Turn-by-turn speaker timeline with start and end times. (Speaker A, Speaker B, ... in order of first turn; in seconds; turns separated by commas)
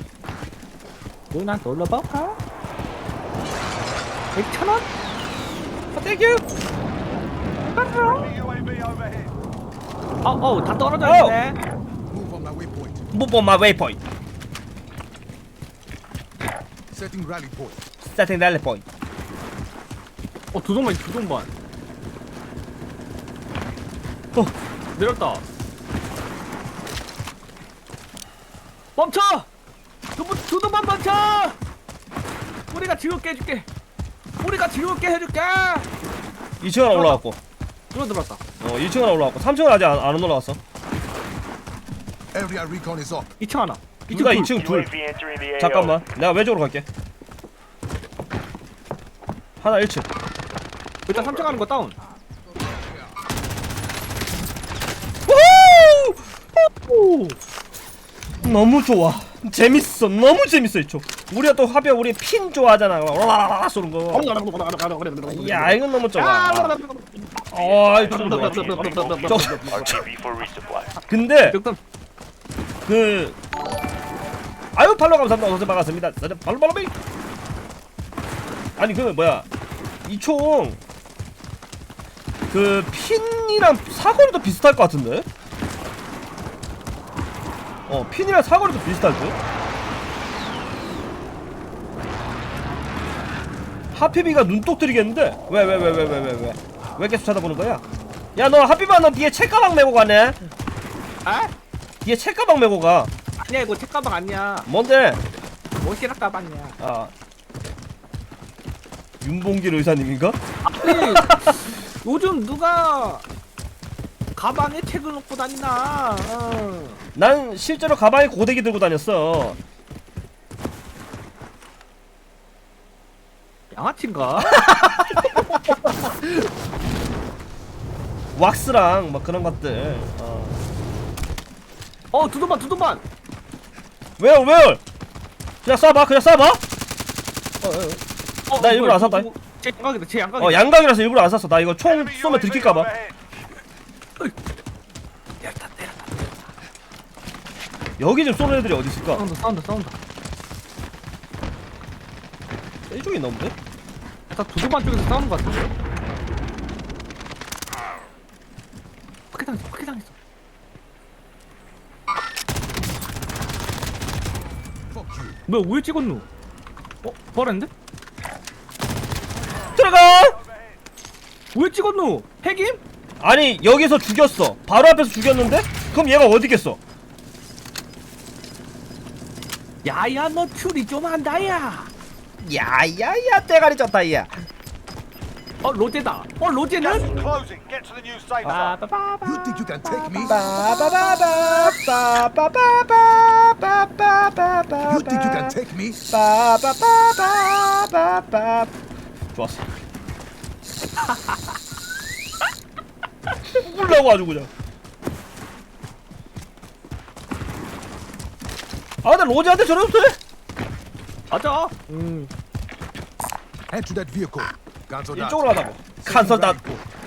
Speaker A: 1.3-2.4, Speaker A: 4.3-4.9, Speaker B: 5.9-6.4, Speaker A: 7.8-8.3, Speaker C: 7.9-9.3, Speaker A: 10.2-11.6, Speaker B: 11.0-11.3, Speaker D: 12.1-13.1, Speaker B: 13.1-14.0, Speaker D: 16.9-17.8, Speaker B: 18.0-18.8, Speaker A: 20.5-21.5, Speaker A: 24.9-25.4, Speaker A: 28.9-29.5, Speaker A: 30.2-31.6, Speaker A: 32.7-33.7, Speaker A: 34.4-35.9, Speaker B: 36.6-37.4, Speaker A: 36.9-37.2, Speaker A: 37.9-38.4, Speaker B: 38.6-40.6, Speaker D: 42.3-43.3, Speaker A: 43.4-44.5, Speaker B: 44.1-44.9, Speaker E: 44.3-46.0, Speaker B: 45.6-46.9, Speaker B: 49.6-50.1, Speaker A: 51.1-52.0, Speaker D: 51.1-51.6, Speaker D: 52.2-53.2, Speaker B: 55.3-56.3, Speaker A: 56.9-57.3, Speaker B: 58.4-64.3, Speaker A: 64.1-70.0, Speaker B: 65.3-66.8, Speaker B: 67.5-69.8, Speaker E: 68.7-71.0, Speaker B: 71.1-71.6, Speaker A: 71.5-71.8, Speaker B: 72.8-73.4, Speaker B: 74.8-76.9, Speaker B: 78.8-79.5, Speaker B: 80.0-80.8, Speaker B: 82.5-85.3, Speaker B: 87.9-89.4, Speaker B: 93.9-97.8, Speaker B: 98.3-100.4, Speaker A: 101.2-101.5, Speaker B: 102.0-103.1, Speaker A: 103.4-104.7, Speaker B: 104.7-105.2, Speaker A: 105.8-106.8, Speaker B: 106.8-107.1, Speaker B: 109.2-111.6, Speaker A: 110.6-113.2, Speaker A: 114.3-117.0, Speaker B: 117.1-119.6, Speaker A: 123.7-124.7, Speaker B: 124.4-126.5, Speaker B: 128.3-130.6, Speaker A: 132.1-133.0, Speaker B: 134.2-134.8, Speaker B: 135.6-136.6, Speaker B: 137.6-138.0, Speaker A: 138.5-140.7, Speaker B: 138.5-139.3, Speaker B: 140.4-142.9, Speaker C: 141.8-143.2, Speaker A: 145.4-146.4, Speaker B: 148.0-149.2, Speaker A: 149.1-149.9, Speaker B: 152.9-153.5, Speaker A: 154.3-155.7, Speaker A: 159.3-160.1, Speaker D: 164.9-165.4, Speaker A: 165.5-166.3, Speaker A: 167.0-167.7, Speaker C: 169.3-170.8, Speaker B: 169.7-170.4, Speaker A: 171.5-172.8, Speaker B: 173.2-176.8, Speaker A: 179.8-181.9, Speaker B: 182.4-184.3, Speaker A: 185.6-187.1, Speaker C: 186.8-188.8, Speaker A: 188.4-191.8, Speaker D: 189.2-190.3, Speaker B: 190.2-198.8, Speaker D: 194.8-196.0, Speaker B: 199.3-199.7, Speaker A: 201.0-201.4, Speaker B: 203.5-204.5, Speaker B: 209.0-210.2, Speaker A: 211.3-212.3, Speaker D: 213.7-216.8, Speaker B: 215.1-216.6